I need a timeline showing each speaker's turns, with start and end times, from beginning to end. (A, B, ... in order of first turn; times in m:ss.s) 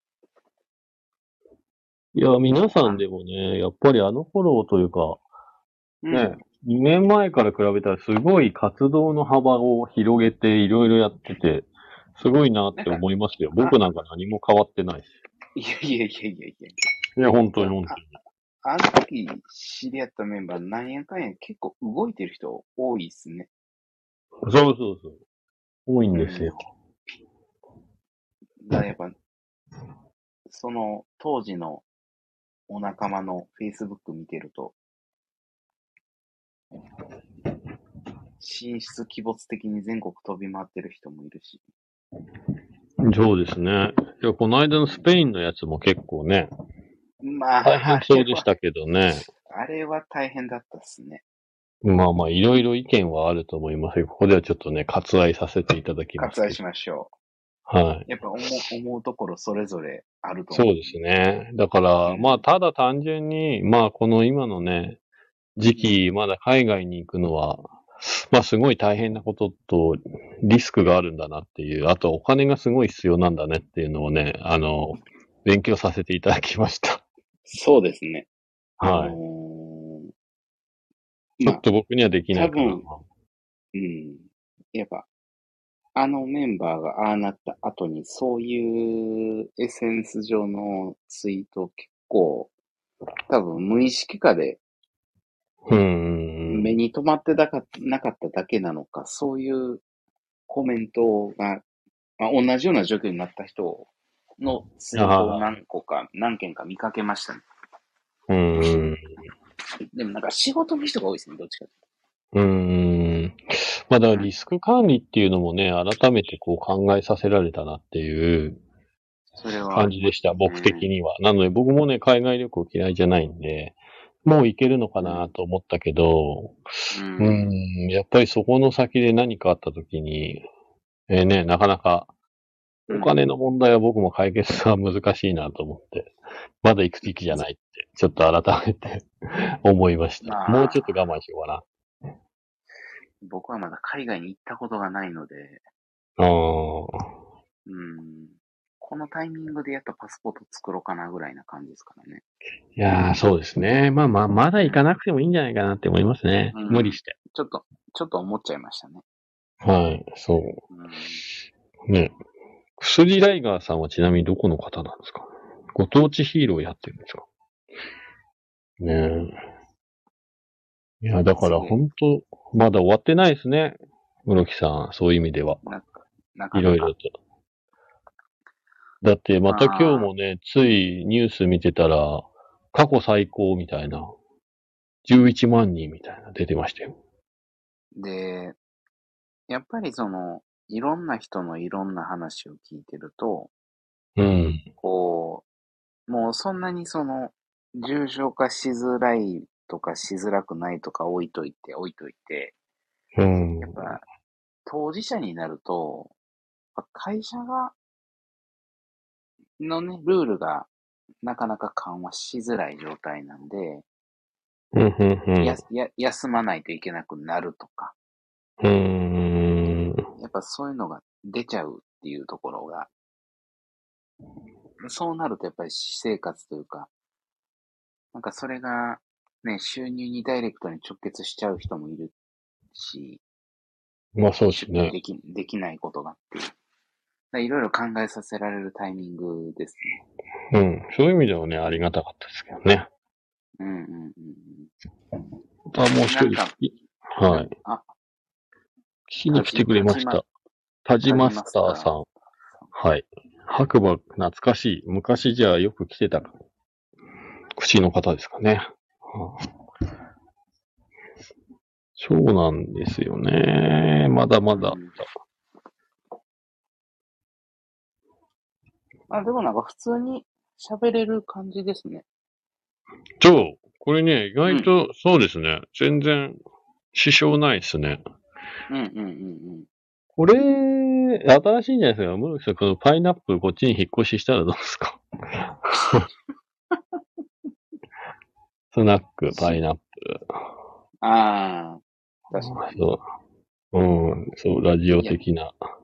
0:02.1-0:05.2 A
0:02.8-0:03.0 B
0:06.0-0:06.4 B
0:06.1-0:15.1 A
0:12.8-0:13.0 B
0:15.5-0:16.7 B
0:17.2-0:18.1 A
0:17.6-0:18.0 B
0:18.6-0:23.5 B
0:24.4-0:25.2 A
0:25.9-0:26.6 A
0:26.1-0:26.6 B
0:28.6-0:29.1 B
0:30.5-0:31.8 B
0:32.7-0:34.8 B
0:38.4-0:41.6 B
0:43.0-0:46.5 A
0:47.2-0:48.5 B
0:47.6-0:49.3 A
0:49.4-0:51.2 B
0:51.8-0:56.6 A
0:56.2-0:57.1 B
0:57.7-0:58.0 A
0:58.1-1:01.0 B
1:00.5-1:05.0 A
1:02.0-1:02.4 B
1:05.6-1:17.0 A
1:05.6-1:05.9 B
1:17.5-1:18.3 B
1:18.8-1:19.2 A
1:18.9-1:20.1 B
1:21.4-1:23.0 A
1:22.3-1:22.8 B
1:23.7-1:25.1 B
1:25.9-1:32.5 B
1:33.3-1:34.6 B
1:35.7-1:36.7 A
1:36.5-1:39.8 B
1:40.5-1:41.6 B
1:42.2-1:47.4 B
1:44.9-1:45.4 A
1:48.3-1:49.0 A
1:48.5-1:48.8 B
1:49.9-1:51.7 B
1:52.3-1:58.6 A
1:59.4-2:00.9 B
1:59.7-2:10.4 A
2:05.0-2:05.3 B
2:06.9-2:07.5 B
2:11.1-2:12.1 A
2:12.9-2:21.6 A
2:20.2-2:20.9 B
2:23.2-2:25.6 B
2:26.2-2:27.0 A
2:27.6-2:32.2 B
2:32.8-2:37.2 A
2:36.5-2:39.0 B
2:39.6-2:40.6 A
2:40.7-2:41.2 B
2:41.9-2:42.1 A
2:42.8-2:47.2 A
2:48.8-2:49.4 A
2:51.0-2:55.6 A
2:51.3-2:51.8 B
2:55.6-2:56.9 B
2:56.5-2:57.1 A
2:59.0-3:04.1 A
2:59.5-3:00.1 B
3:05.0-3:07.0 A
3:08.0-3:08.6 B
3:09.5-3:13.5 B
3:14.2-3:14.6 A
3:14.8-3:15.4 B
3:16.1-3:22.5 B
3:23.2-3:24.0 A
3:23.6-3:24.0 B
3:24.6-3:26.1 B
3:26.7-3:27.7 B
3:29.6-3:30.7 B
3:31.2-3:33.8 B
3:34.7-3:35.6 A
3:35.4-3:37.9 B
3:38.6-3:40.0 A
3:40.2-3:42.9 B
3:44.8-3:46.9 B
3:48.1-3:52.1 B
3:52.7-3:53.2 B
3:54.1-3:54.9 A
3:54.5-3:56.5 B
3:57.3-4:00.0 B
4:00.5-4:02.9 A
4:03.6-4:04.7 B
4:05.7-4:07.5 A
4:06.0-4:06.6 B
4:07.2-4:07.8 B
4:09.1-4:10.2 A
4:09.3-4:10.2 B
4:10.8-4:12.0 A
4:11.0-4:11.9 B
4:12.7-4:16.3 A
4:17.6-4:19.4 A
4:22.0-4:25.0 A
4:24.5-4:25.0 B
4:29.1-4:32.0 B
4:33.2-4:36.4 A
4:34.4-4:34.7 B
4:36.9-4:38.0 A
4:38.7-4:39.7 B
4:40.2-4:46.1 A
4:48.7-4:50.4 A
4:49.3-4:49.6 B
4:51.0-4:52.8 B
4:52.4-4:53.0 A
4:53.7-4:55.6 A
4:54.9-4:55.2 B